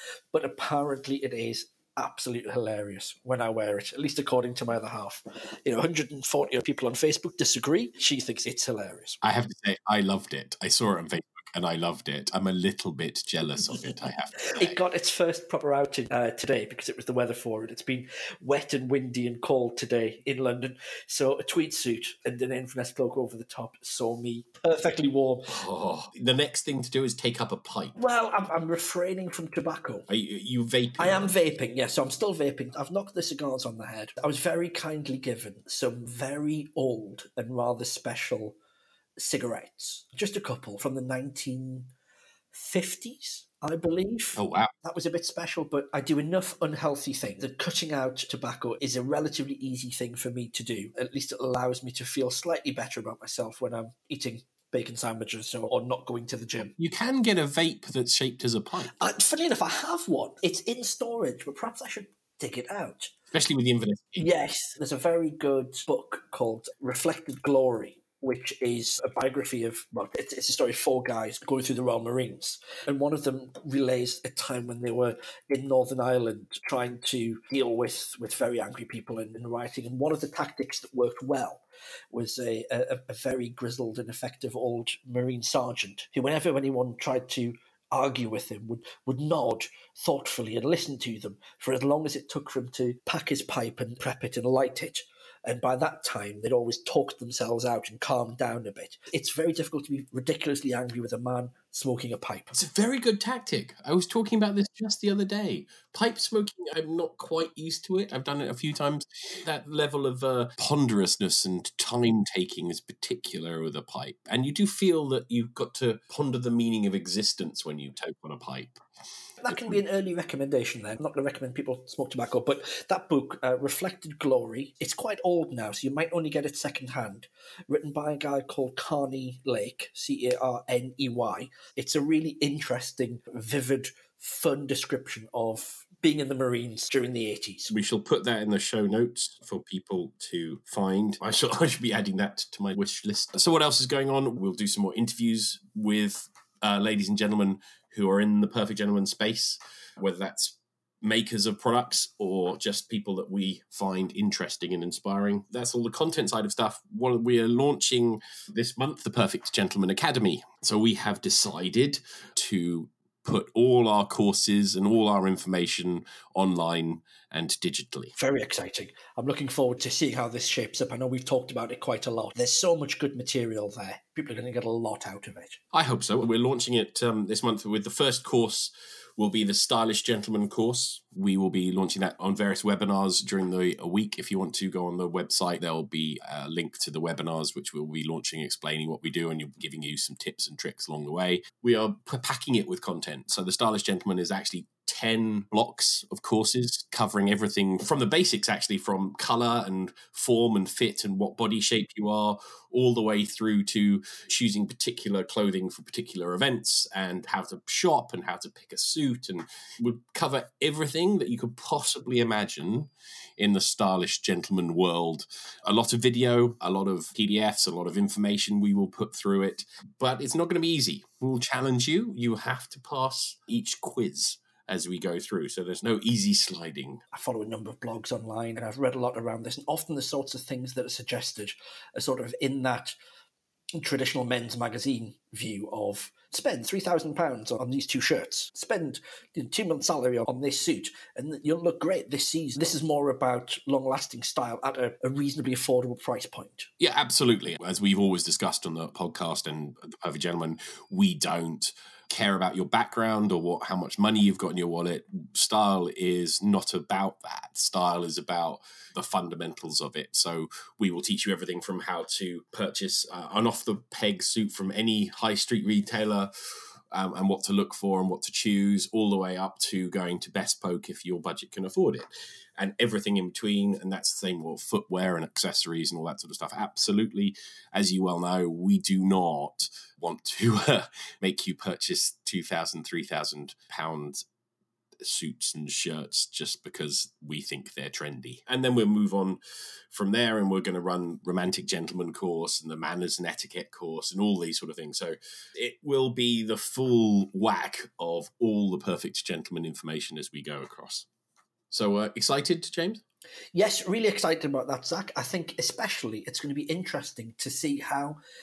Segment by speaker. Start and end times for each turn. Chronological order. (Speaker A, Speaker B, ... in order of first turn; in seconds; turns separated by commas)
Speaker A: 0.3-9.2, Speaker B: 9.2-14.8, Speaker A: 14.5-25.5, Speaker B: 25.5-27.9, Speaker A: 28.0-30.1, Speaker B: 30.1-31.4, Speaker A: 31.0-38.6, Speaker A: 39.2-41.9, Speaker A: 42.5-56.7, Speaker B: 44.4-44.7, Speaker B: 56.8-59.0, Speaker A: 59.0-63.1, Speaker B: 63.3-64.3, Speaker A: 64.2-102.6, Speaker B: 102.5-118.8, Speaker A: 119.4-137.7, Speaker B: 137.7-168.1, Speaker A: 168.2-175.6, Speaker B: 175.7-227.0, Speaker A: 227.1-233.0, Speaker A: 233.8-246.7, Speaker B: 246.8-266.3, Speaker B: 266.9-284.2, Speaker B: 285.0-289.4, Speaker B: 289.9-301.1, Speaker B: 301.7-303.0, Speaker A: 303.5-308.2